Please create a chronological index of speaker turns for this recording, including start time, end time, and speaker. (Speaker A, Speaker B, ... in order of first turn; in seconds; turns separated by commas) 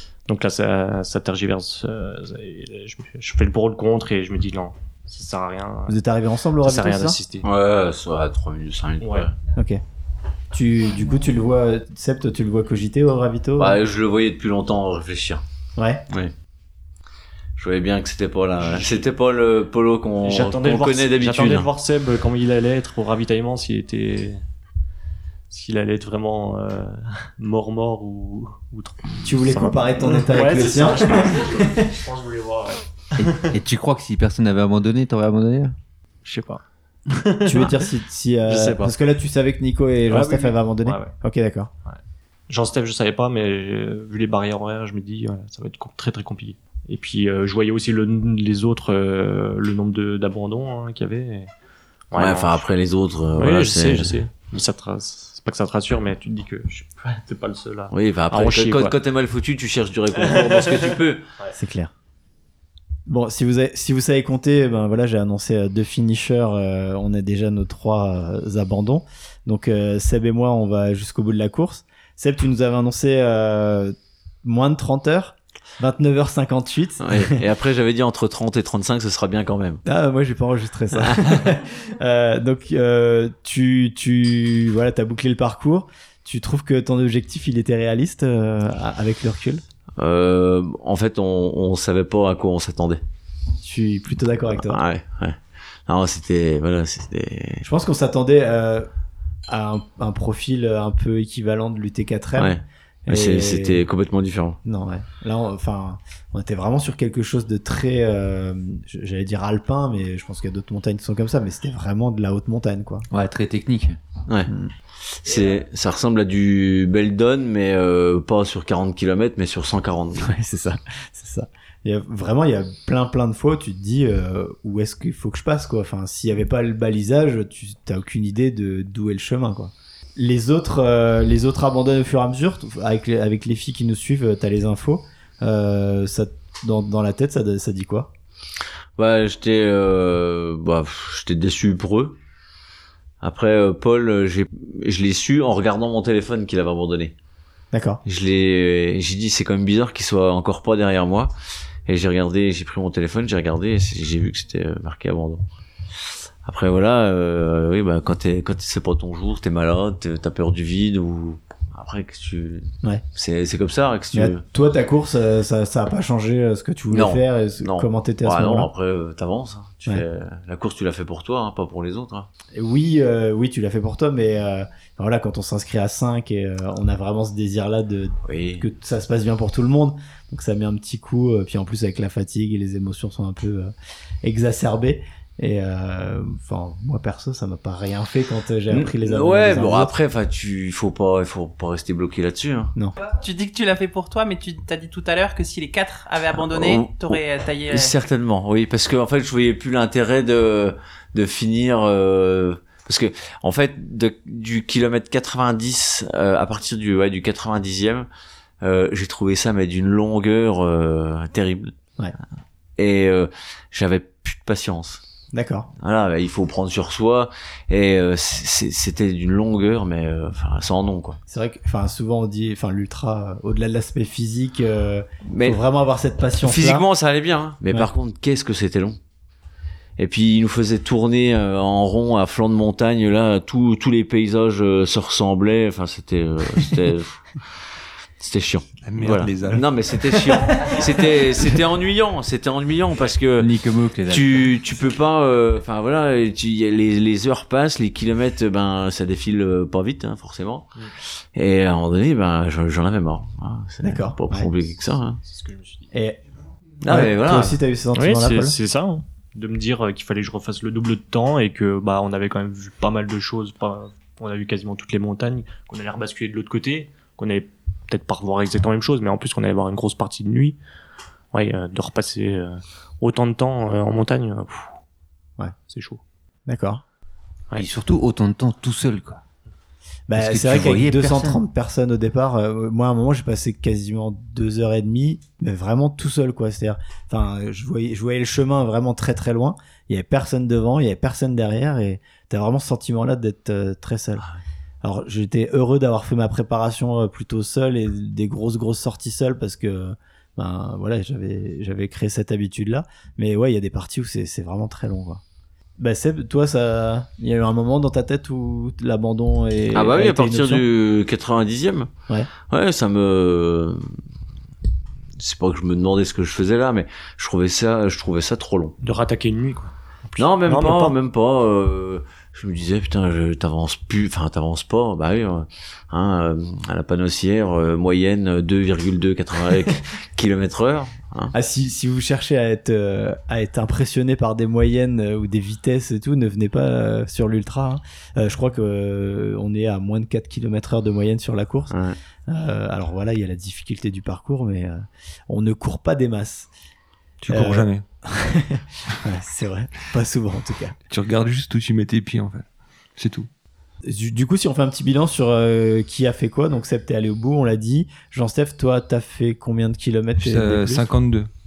Speaker A: 0.3-6.0, Speaker B: 5.9-7.2, Speaker A: 6.6-7.5, Speaker C: 7.4-9.3, Speaker A: 9.0-9.3, Speaker B: 9.6-9.8, Speaker B: 10.5-13.8, Speaker C: 13.6-15.4, Speaker B: 15.8-16.0, Speaker C: 16.1-16.3, Speaker C: 17.6-21.7, Speaker A: 18.7-19.0, Speaker A: 20.2-24.4, Speaker A: 25.5-33.5, Speaker B: 29.2-31.9, Speaker D: 33.2-35.8, Speaker A: 36.2-37.9, Speaker B: 37.4-41.7, Speaker A: 38.5-38.9, Speaker A: 40.1-41.1, Speaker A: 41.9-51.5, Speaker A: 52.1-52.6, Speaker C: 52.1-54.2, Speaker A: 53.4-59.0, Speaker C: 57.9-61.2, Speaker A: 60.2-61.5, Speaker B: 61.5-61.9, Speaker B: 63.1-77.4, Speaker C: 77.0-79.8, Speaker B: 79.8-89.6, Speaker C: 80.9-81.5, Speaker C: 90.0-93.0, Speaker B: 93.6-94.8, Speaker C: 94.6-97.7, Speaker B: 97.6-98.9, Speaker B: 99.5-103.8, Speaker C: 102.4-104.6, Speaker B: 104.7-113.1, Speaker D: 113.1-114.0, Speaker C: 115.0-120.3, Speaker B: 120.2-138.1, Speaker C: 139.0-142.2, Speaker C: 143.2-147.1, Speaker B: 147.7-148.0, Speaker C: 148.1-151.3, Speaker C: 151.9-155.4, Speaker C: 156.4-164.4, Speaker B: 164.1-168.7, Speaker C: 166.9-172.3, Speaker B: 172.5-189.9, Speaker C: 178.2-178.7, Speaker C: 188.7-192.7, Speaker E: 193.0-197.9, Speaker C: 196.3-208.1, Speaker C: 208.6-211.7, Speaker C: 212.8-215.0, Speaker B: 215.3-215.7, Speaker C: 215.8-221.2, Speaker B: 221.3-226.9, Speaker C: 225.3-225.6, Speaker C: 226.4-229.0, Speaker C: 230.0-243.5, Speaker F: 238.8-239.9, Speaker D: 243.4-244.5, Speaker C: 244.1-255.2, Speaker B: 253.8-254.5, Speaker A: 255.2-255.9, Speaker B: 255.9-256.2, Speaker C: 256.8-257.6, Speaker B: 256.8-258.6, Speaker A: 257.9-270.6, Speaker A: 271.3-274.7, Speaker A: 275.7-276.0, Speaker B: 276.5-276.8, Speaker D: 277.6-279.2, Speaker B: 280.1-294.2, Speaker D: 280.1-281.4, Speaker B: 294.8-305.2, Speaker B: 305.8-310.6, Speaker C: 309.7-314.0, Speaker C: 315.2-318.8, Speaker A: 318.8-320.9, Speaker C: 320.2-331.3, Speaker B: 331.3-341.7, Speaker C: 341.7-342.0, Speaker B: 342.3-346.5, Speaker F: 347.2-347.9, Speaker B: 347.3-350.8, Speaker F: 350.9-352.5, Speaker F: 353.0-353.3, Speaker B: 353.9-360.9, Speaker F: 360.2-361.3